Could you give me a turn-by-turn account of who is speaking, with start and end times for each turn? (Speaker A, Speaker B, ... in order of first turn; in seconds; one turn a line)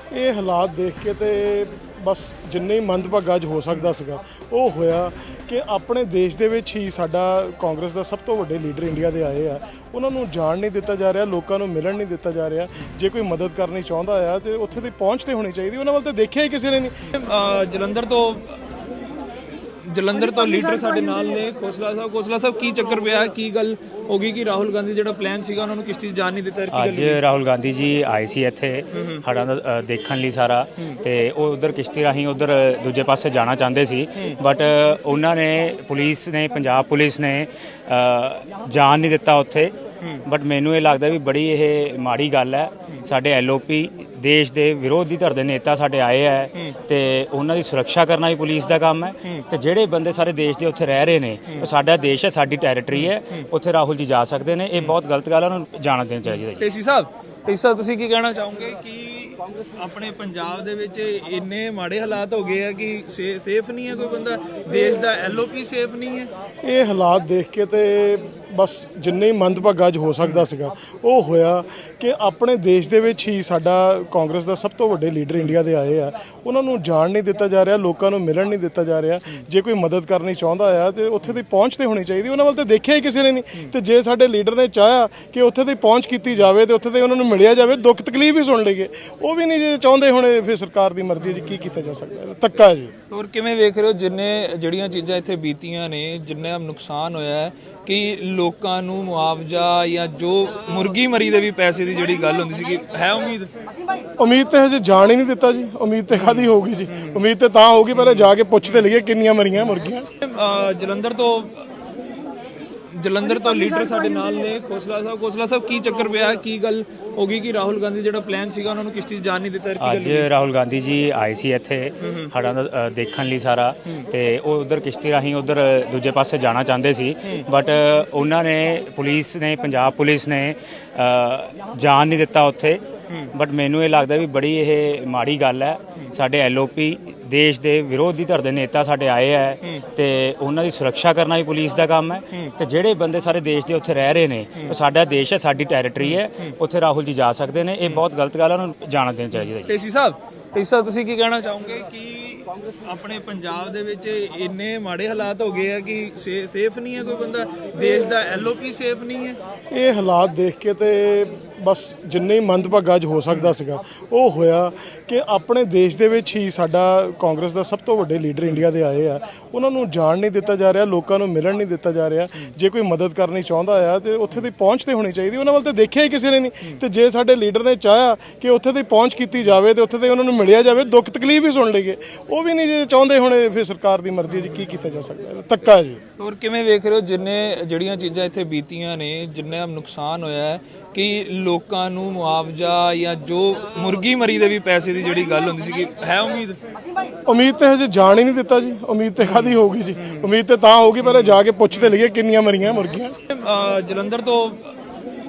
Speaker A: 0.1-17.1
Speaker B: 17.1-18.6
Speaker B: 19.8-27.2
Speaker C: 26.7-56.7
Speaker B: 56.5-66.3
Speaker A: 66.6-92.9
Speaker B: 93.1-103.5
Speaker A: 104.2-110.1
Speaker B: 107.9-108.3
Speaker B: 110.2-111.6
Speaker B: 112.9-120.3
Speaker C: 119.8-132.8
Speaker C: 133.3-149.7
Speaker B: 149.6-159.4
Speaker A: 159.7-186.0
Speaker B: 186.2-196.6
Speaker A: 197.3-203.1
Speaker B: 201.0-201.4
Speaker B: 203.3-204.7